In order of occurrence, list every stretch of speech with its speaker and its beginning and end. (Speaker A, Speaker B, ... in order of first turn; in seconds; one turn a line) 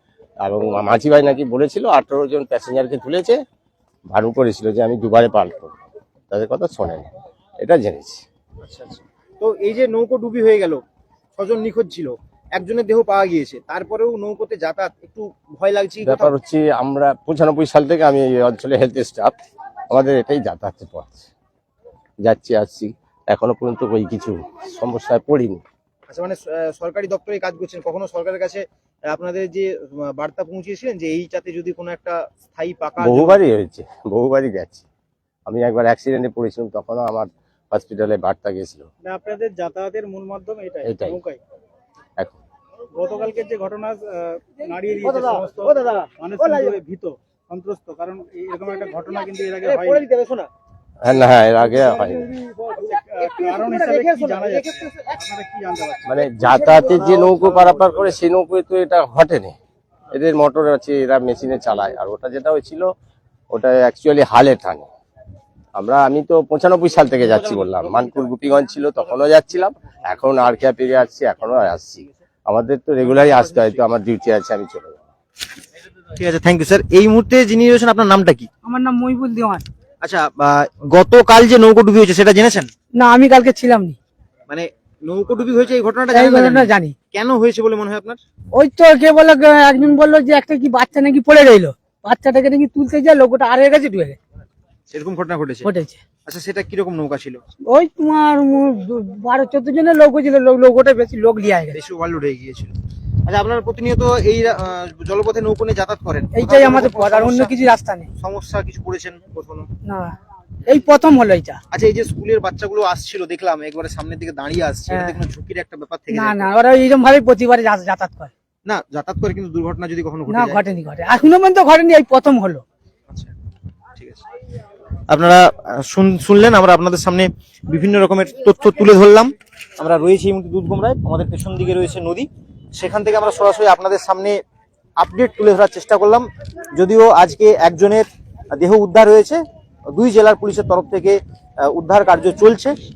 Speaker A: 0.4-3.4
Speaker A: 4.1-5.8
Speaker A: 6.3-7.1
Speaker A: 7.6-8.2
Speaker B: 8.6-10.8
Speaker B: 11.4-16.4
Speaker A: 16.0-19.4
Speaker A: 19.9-21.3
Speaker A: 22.2-25.6
Speaker B: 26.1-33.4
Speaker A: 33.0-34.8
Speaker A: 35.5-38.9
Speaker C: 39.0-41.4
Speaker A: 40.8-41.2
Speaker C: 42.9-50.0
Speaker B: 45.0-46.8
Speaker B: 49.6-50.5
Speaker A: 51.0-52.3
Speaker C: 52.4-58.0
Speaker B: 53.6-55.0
Speaker A: 56.1-59.5
Speaker A: 60.1-62.8
Speaker A: 63.5-64.9
Speaker A: 65.8-75.0
Speaker B: 76.2-78.5
Speaker D: 78.6-79.6
Speaker B: 80.0-82.7
Speaker D: 82.9-84.0
Speaker B: 84.5-88.2
Speaker D: 86.1-86.9
Speaker D: 88.5-94.2
Speaker B: 94.9-95.7
Speaker D: 95.6-96.0
Speaker B: 96.2-97.4
Speaker D: 97.6-101.8
Speaker B: 101.7-102.7
Speaker B: 103.2-107.5
Speaker D: 106.3-108.1
Speaker B: 108.2-109.7
Speaker D: 109.8-110.1
Speaker D: 110.7-111.6
Speaker B: 111.7-116.5
Speaker D: 114.9-115.2
Speaker D: 116.1-118.3
Speaker B: 118.6-120.6
Speaker D: 120.3-122.6
Speaker B: 124.0-124.2
Speaker B: 125.1-134.4
Speaker B: 135.0-142.7